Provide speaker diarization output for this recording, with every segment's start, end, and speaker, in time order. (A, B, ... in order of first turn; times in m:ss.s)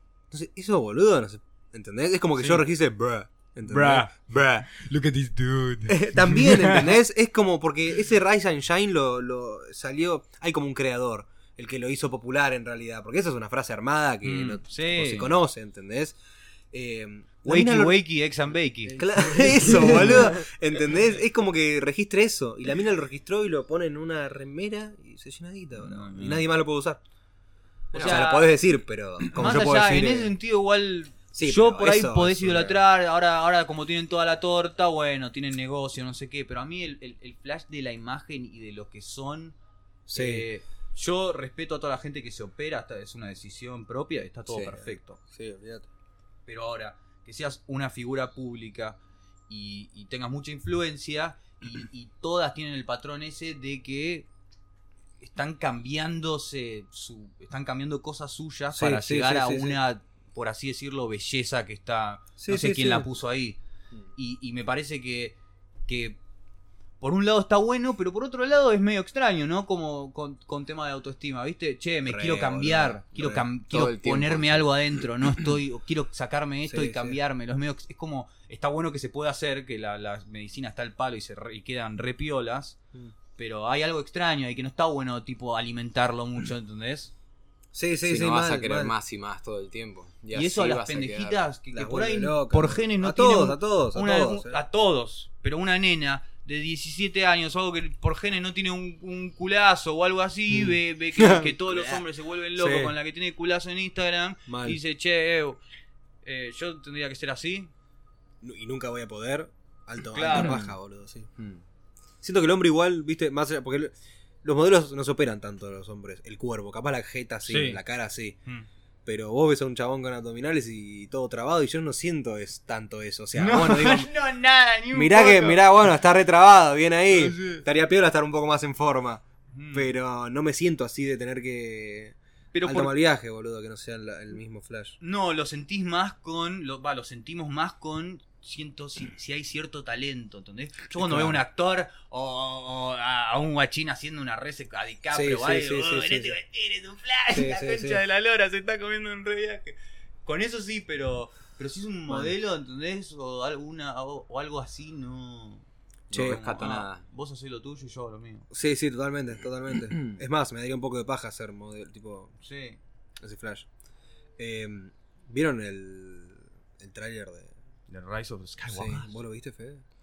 0:00.3-0:04.6 A
0:02.4-0:02.6 B
0:03.7-0:07.0 B
0:05.9-0:16.2 A
0:14.2-0:15.3 B
0:16.7-0:18.0 A
0:17.4-0:19.0 B
0:18.9-0:20.4 C
0:19.0-0:27.0 A
0:25.8-0:26.5 B
0:27.9-0:28.5 B
0:27.9-0:30.3 A
0:27.9-0:28.3 C
0:29.3-0:39.6 B
0:31.3-0:32.8 A
0:40.1-0:45.2 B
0:40.1-0:40.5 A
0:44.5-0:44.9 C
0:45.3-0:45.9 A
0:46.4-0:54.3 B
0:55.2-1:03.6 B
0:58.7-0:59.8 A
1:02.4-1:03.1 A
1:04.2-1:06.2 B
1:07.0-1:22.8 B
1:12.1-1:13.4 A
1:13.7-1:14.8 C
1:16.7-1:17.2 A
1:23.4-1:27.1 B
1:27.7-1:28.9 A
1:28.0-1:31.4 C
1:30.3-1:45.6 B
1:31.7-1:34.6 A
1:40.5-1:42.0 A
1:42.6-1:42.9 A
1:44.5-1:44.8 A
1:46.2-1:47.7 B
1:48.4-1:51.3 A
1:50.1-1:50.6 B
1:50.3-1:50.6 C
1:51.4-1:51.6 C
1:52.2-1:58.4 A
1:57.4-1:57.8 B
1:59.0-2:04.1 A
2:03.4-2:05.6 B
2:04.9-2:15.0 A
2:07.1-2:07.6 B
2:09.5-2:09.9 B
2:12.5-2:13.0 B
2:15.0-2:38.5 B
2:21.0-2:21.4 A
2:25.1-2:26.4 A
2:27.3-2:28.0 A
2:32.1-2:32.3 A
2:36.1-2:37.0 C
2:36.1-2:36.4 A
2:38.5-2:42.3 A
2:39.9-2:40.2 C
2:42.4-2:42.8 B
2:43.2-2:43.7 A
2:44.4-2:47.5 A
2:47.9-2:49.1 B
2:48.7-2:49.8 A